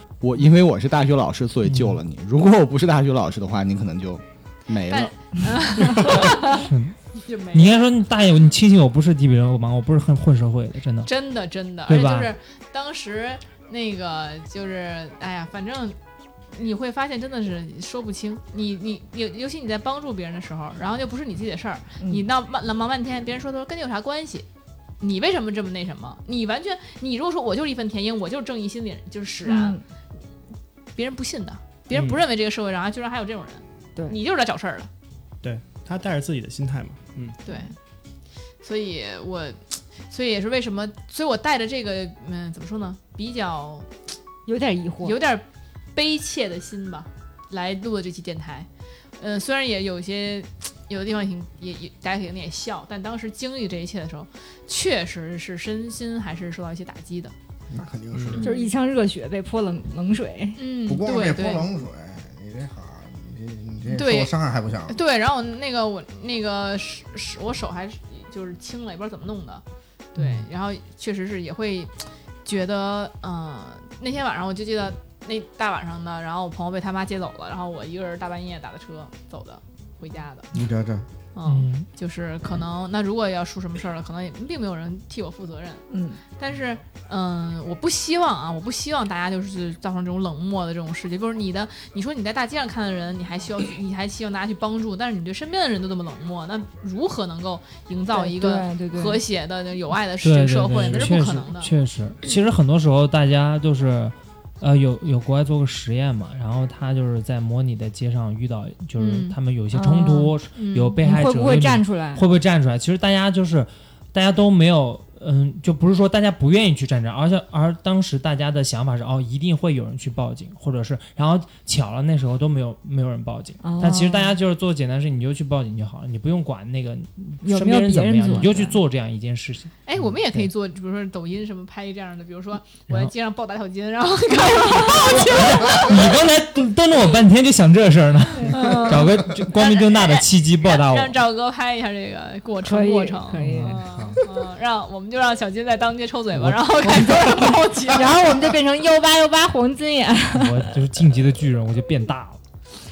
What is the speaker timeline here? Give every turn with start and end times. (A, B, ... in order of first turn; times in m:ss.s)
0:00.2-0:05.1 A
0:01.6-0:02.0 B
0:04.9-0:07.8 C
0:05.9-0:06.9 B
0:07.5-0:11.1 B
0:11.0-0:16.0 C
0:11.9-0:12.3 B
0:16.5-0:24.5 C
0:25.0-0:29.8 C
0:29.4-0:29.8 D
0:31.0-0:34.9 C
0:31.9-0:32.2 E
0:35.4-0:37.4 E
0:37.4-0:37.7 C
0:38.6-0:43.9 C
0:44.5-0:45.2 D
0:45.0-0:45.4 C
0:46.0-0:48.7 C
0:49.2-0:57.3 C
0:57.7-0:58.4 F
0:58.1-0:58.4 E
0:58.4-0:58.7 C
0:58.4-1:00.6 D
1:00.6-1:01.7 C
1:00.9-1:05.0 F
1:03.9-1:04.3 C
1:04.9-1:09.6 C
1:10.2-1:20.5 C
1:20.5-1:21.0 F
1:21.4-1:25.8 C
1:21.5-1:21.9 B
1:25.9-1:26.2 D
1:26.4-1:41.7 C
1:38.1-1:39.2 D
1:40.2-2:09.8 B
1:49.0-1:49.4 C
1:49.7-1:50.4 D
1:50.6-1:51.0 C
1:51.0-1:52.2 D
2:03.6-2:04.4 D
2:07.4-2:08.8 D
2:09.8-2:16.1 C
2:15.0-2:21.2 B
2:18.4-2:18.7 D
2:18.5-2:28.2 C
2:22.6-2:23.8 D
2:23.3-2:24.2 B
2:26.4-2:27.1 B
2:26.8-2:30.7 D
2:30.4-2:32.4 B